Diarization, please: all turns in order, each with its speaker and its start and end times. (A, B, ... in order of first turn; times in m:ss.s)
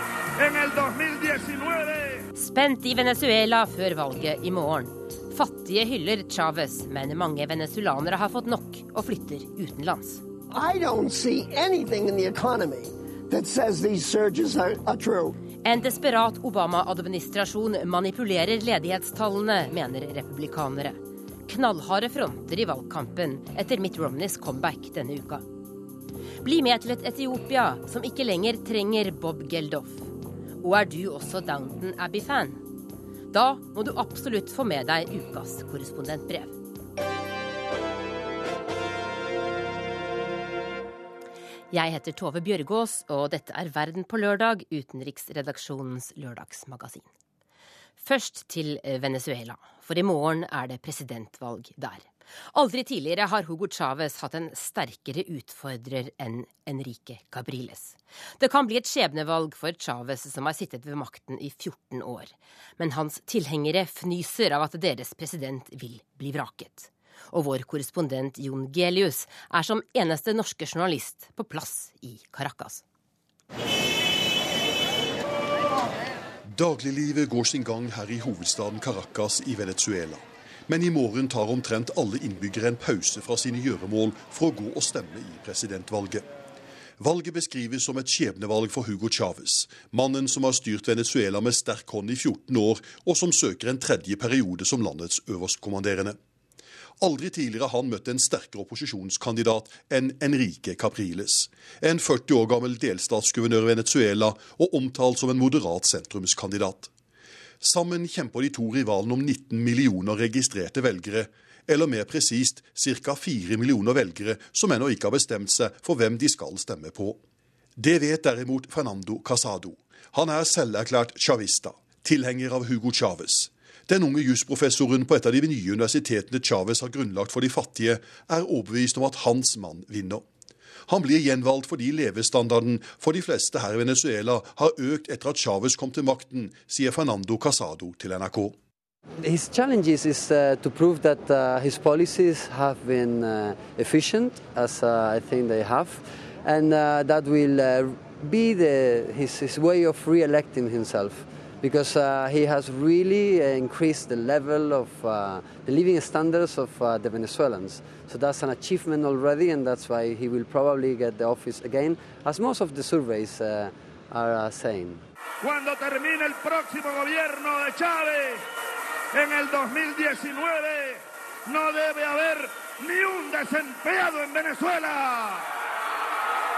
0:00.4-0:02.2 A
0:02.4-0:10.2 B
0:10.5-0:15.3 C
0:15.6-0:25.4 B
0:26.4-0:30.1 B
0:30.6-0:32.6 B
0:33.3-0:36.6 B
0:41.7-0:47.1 B
0:48.0-1:12.8 B
1:16.5-1:26.2 D
1:27.0-1:36.2 D
1:37.0-1:46.9 D
1:47.6-1:57.2 D
1:57.8-2:10.2 D
2:10.9-2:18.6 D
2:19.2-2:45.0 E
2:45.4-2:48.4 A
2:49.1-2:55.5 A